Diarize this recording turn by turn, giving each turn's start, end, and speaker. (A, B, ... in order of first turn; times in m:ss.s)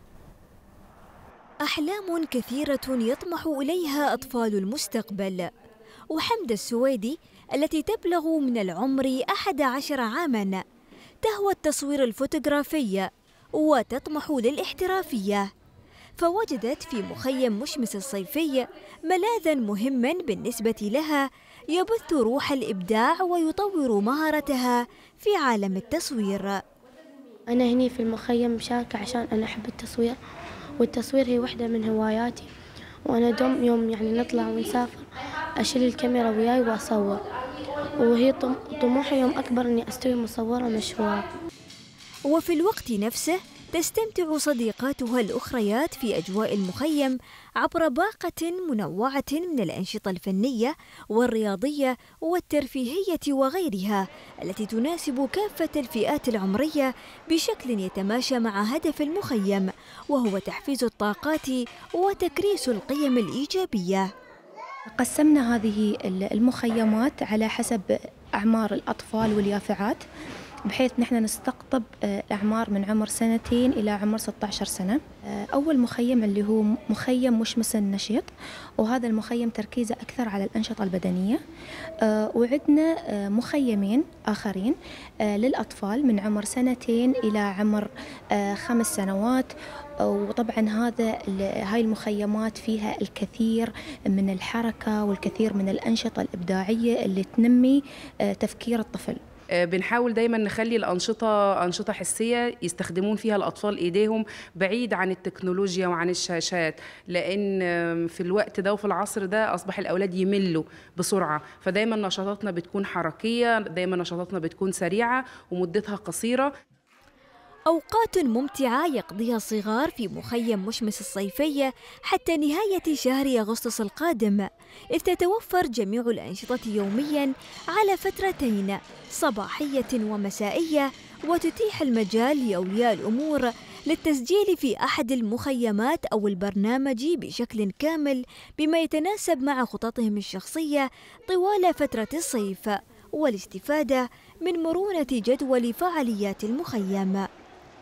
0:01.6-0:05.5 A
0:06.1-0:10.6 A
0:11.2-0:15.5 A
0:16.2-0:26.6 A
0:27.5-0:30.2 B
0:30.8-0:32.5 B
0:33.0-0:37.2 B
0:37.8-0:41.3 B
0:42.3-1:04.1 A
1:05.0-1:10.0 C
1:10.7-1:18.3 C
1:18.8-1:21.4 C
1:22.0-1:24.8 C
1:25.2-1:29.5 C
1:30.0-1:39.2 C
1:39.6-1:56.5 D
1:57.7-2:27.3 A